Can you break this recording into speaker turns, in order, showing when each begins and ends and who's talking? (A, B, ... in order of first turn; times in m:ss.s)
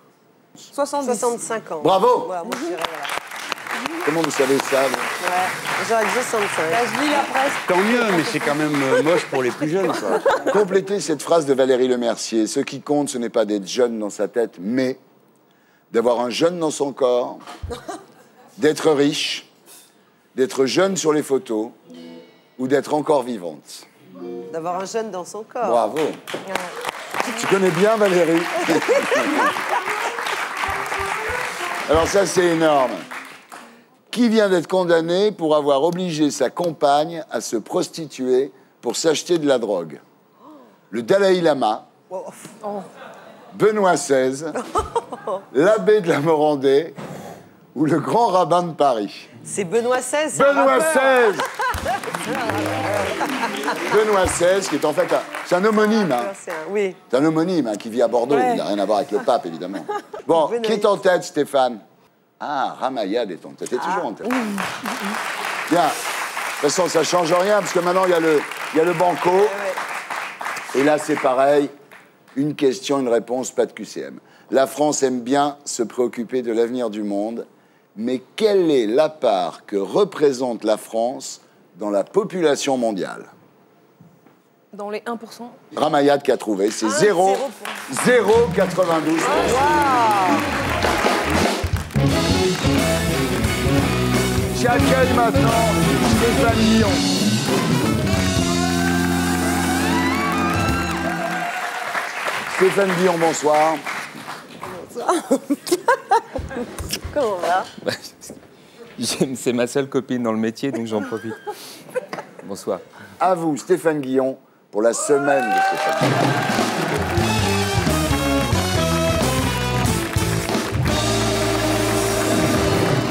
0:00.7-0:01.4 A
0:01.0-0:03.1 B
0:01.8-0:02.3 C
0:04.0-0:05.2 C
0:05.2-0:06.9 B
0:06.7-0:09.2 A
0:07.7-0:10.3 D
0:10.4-0:15.0 C
0:15.9-0:17.4 C
0:18.6-0:19.5 C
0:20.4-0:21.8 C
0:22.6-0:23.9 C
0:24.5-0:25.8 B
0:25.6-0:26.2 C
0:27.3-0:29.5 C
0:31.9-0:33.1 C
0:34.1-0:40.0 C
0:40.9-0:41.9 C
0:43.5-0:44.6 C
0:45.5-0:47.0 C
0:47.7-0:49.3 C
0:49.4-0:51.5 B
0:50.3-0:51.5 C
0:52.3-0:53.8 B
0:53.8-0:56.3 C
0:55.8-0:57.0 B
0:57.1-1:01.8 C
1:00.3-1:00.9 B
1:02.4-1:04.5 C
1:05.7-1:06.0 C
1:06.6-1:09.6 C
1:09.4-1:09.8 B
1:10.7-1:11.7 C
1:12.4-1:23.3 C
1:24.7-1:25.6 A
1:25.7-1:29.6 C
1:26.8-1:27.7 B
1:29.3-1:30.4 A
1:29.4-1:30.1 B
1:34.5-1:37.1 C
1:42.5-1:43.8 C
1:44.9-1:45.4 B
1:47.1-1:47.7 B
1:47.8-1:48.3 E
1:49.0-1:51.4 E
1:52.4-1:52.8 E
1:53.2-1:56.3 C